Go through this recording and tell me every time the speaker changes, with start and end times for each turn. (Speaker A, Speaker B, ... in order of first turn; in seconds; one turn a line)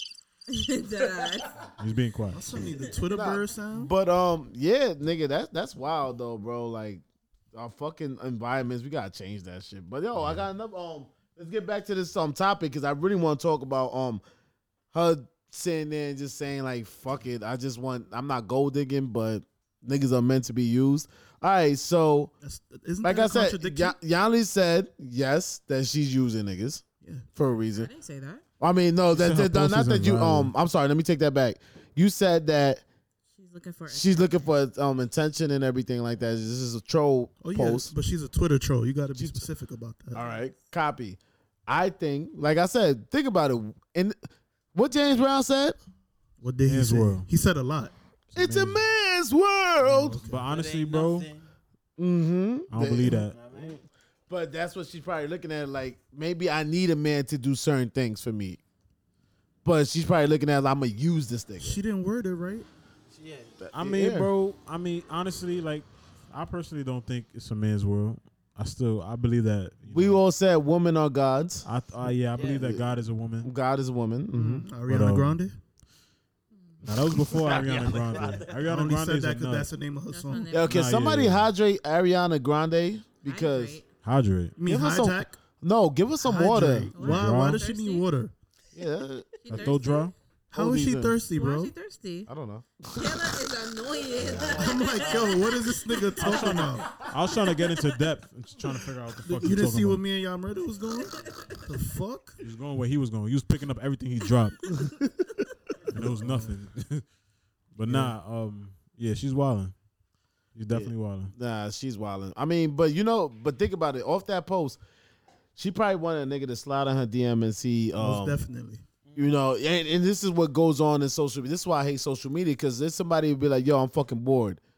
Speaker A: 0.5-1.6
Speaker B: 1.8-2.6
Speaker C: 2.3-3.9
Speaker D: 3.1-7.0
Speaker D: 7.5-14.2
Speaker D: 14.9-22.3
Speaker C: 22.4-24.0
Speaker D: 23.0-27.9
Speaker A: 27.7-28.4
Speaker D: 28.6-32.8
Speaker B: 29.1-30.5
Speaker A: 33.4-34.5
Speaker D: 33.9-37.9
Speaker C: 37.4-40.2
Speaker D: 39.2-39.4
Speaker D: 40.1-44.2
Speaker D: 44.7-45.8
Speaker C: 46.4-47.9
Speaker B: 46.6-47.3
Speaker B: 48.3-48.9
Speaker D: 48.3-50.3
Speaker C: 49.8-50.4
Speaker B: 50.2-51.3
Speaker E: 50.4-51.5
Speaker D: 52.0-58.6
Speaker B: 52.7-53.4
Speaker E: 53.1-53.8
Speaker D: 59.6-61.8
Speaker C: 61.6-62.7
Speaker E: 63.1-63.6
Speaker D: 63.6-64.3
Speaker B: 63.7-70.2
Speaker D: 69.9-71.7
Speaker B: 71.7-73.5
Speaker E: 72.3-72.8
Speaker D: 72.5-72.8
Speaker D: 73.4-74.7
Speaker C: 74.3-75.6
Speaker B: 74.9-75.4
Speaker A: 76.5-76.8
Speaker B: 76.8-79.7
Speaker E: 77.2-78.7
Speaker C: 78.6-80.5
Speaker A: 80.1-80.8
Speaker D: 80.5-83.8
Speaker B: 80.6-81.5
Speaker A: 83.2-83.9
Speaker B: 84.0-84.6
Speaker C: 84.6-85.4
Speaker D: 84.7-87.0
Speaker C: 86.2-88.3
Speaker A: 86.9-88.1
Speaker B: 87.0-87.6
Speaker D: 88.7-89.8
Speaker A: 89.4-90.1
Speaker B: 89.5-90.1
Speaker C: 90.5-91.7
Speaker D: 90.5-91.2
Speaker A: 91.3-92.3
Speaker D: 92.3-93.2
Speaker A: 92.9-96.5
Speaker B: 94.2-94.6
Speaker E: 94.4-95.4
Speaker C: 94.4-97.0
Speaker B: 96.2-100.0
Speaker C: 99.2-102.4
Speaker B: 102.4-104.8
Speaker B: 105.9-107.0
Speaker C: 105.9-106.5
Speaker B: 107.7-109.7
Speaker B: 110.5-111.3
Speaker D: 110.7-114.8
Speaker D: 115.6-118.4
Speaker C: 118.0-118.8
Speaker E: 119.1-119.3
Speaker D: 119.2-124.6